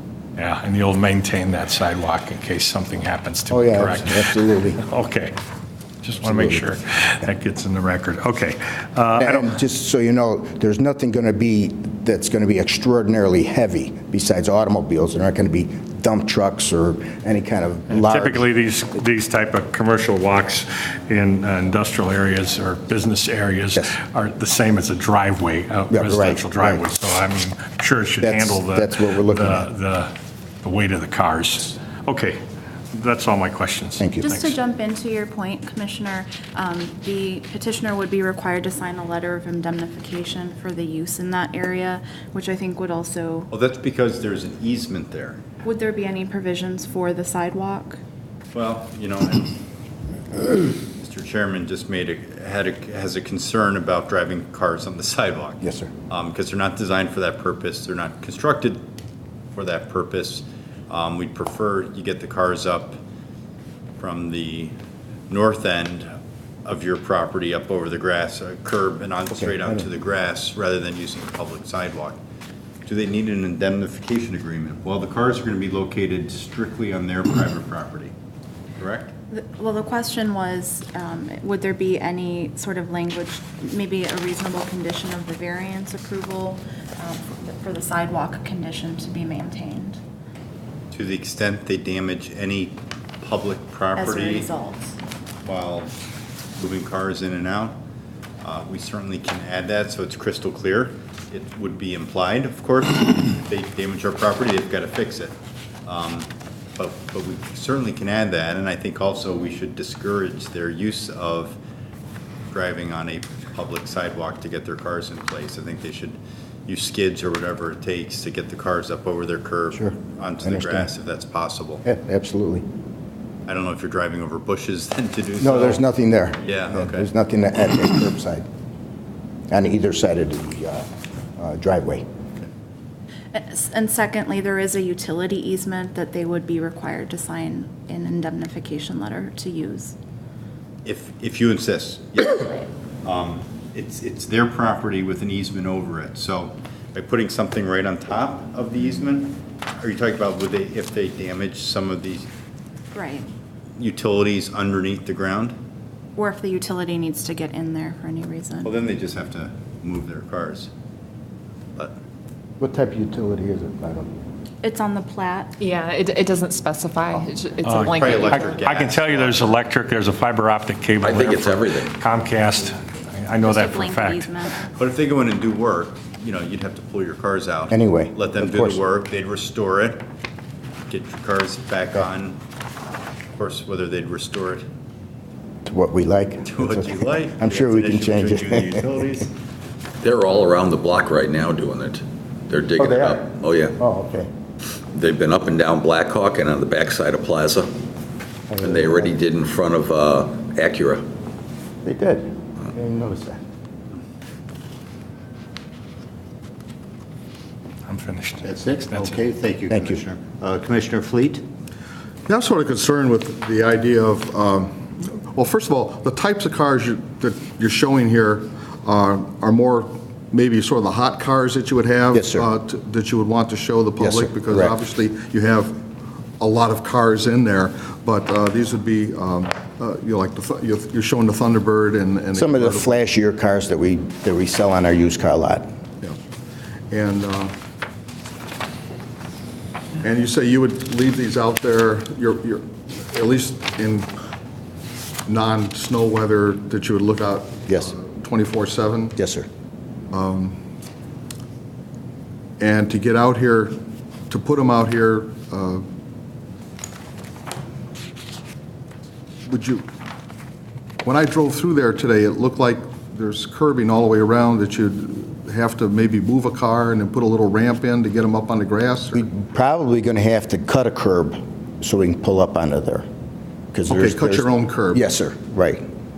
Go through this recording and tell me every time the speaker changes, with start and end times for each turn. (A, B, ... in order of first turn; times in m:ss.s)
0:00.4-0:05.3 A
0:03.5-0:04.8 B
0:06.0-0:09.5 A
0:06.2-0:06.7 B
0:09.2-0:18.4 B
0:17.9-0:32.4 A
0:25.9-0:26.9 B
0:28.2-0:29.7 B
0:32.9-0:34.5 A
0:34.0-0:34.3 B
0:34.2-0:43.5 C
0:43.5-0:45.4 D
0:45.6-0:48.0 C
0:48.5-0:49.6 D
0:50.4-0:58.8 D
0:55.6-0:55.9 B
0:59.5-1:03.0 D
1:04.0-1:04.7 D
1:05.3-1:06.1 D
1:06.6-1:12.2 D
1:09.3-1:09.8 B
1:12.8-1:18.1 D
1:18.8-1:19.1 D
1:19.3-1:30.0 C
1:30.9-1:34.5 D
1:34.0-1:35.0 C
1:35.4-1:35.9 D
1:36.6-1:37.8 D
1:38.4-1:45.3 D
1:45.8-1:51.6 D
1:52.5-2:01.8 D
1:59.7-2:00.9 B
2:01.8-2:02.6 B
2:03.4-2:05.8 D
2:05.4-2:08.4 B
2:06.4-2:07.1 D
2:09.5-2:10.8 B
2:11.4-2:12.0 B
2:13.3-2:19.9 C
2:20.8-2:32.3 D
2:32.9-2:33.3 C
2:33.8-2:35.6 D
2:36.2-2:38.7 C
2:38.6-2:40.7 D
2:42.6-2:44.1 B
2:44.6-2:45.6 C
2:45.6-2:48.6 E
2:47.6-2:54.4 A
2:47.9-2:49.5 D
2:51.0-2:51.9 F
2:53.4-2:54.6 C
2:54.8-3:00.0 D
2:57.7-2:58.8 B
3:00.9-3:02.4 D
3:03.4-3:04.6 D
3:05.6-3:09.0 B
3:06.4-3:09.3 D
3:10.0-3:13.8 F
3:12.8-3:14.3 B
3:14.9-3:17.7 F
3:18.5-3:19.2 B
3:18.6-3:21.0 F
3:21.8-3:23.4 B
3:27.8-3:29.2 A
3:28.4-3:31.4 G
3:29.7-3:30.0 B
3:32.3-3:45.8 H
3:42.1-3:42.4 B
3:44.0-3:44.7 B
3:46.4-3:53.0 H
3:52.3-3:55.6 B
3:56.9-3:57.6 H
4:00.0-4:04.1 H
4:05.2-4:09.2 H
4:07.7-4:07.9 B
4:09.2-4:09.5 B
4:10.1-4:10.6 H
4:12.6-4:15.8 H
4:19.4-4:19.8 H
4:21.0-4:29.2 H
4:29.1-4:33.0 B
4:33.7-4:35.8 B
4:33.9-4:35.0 H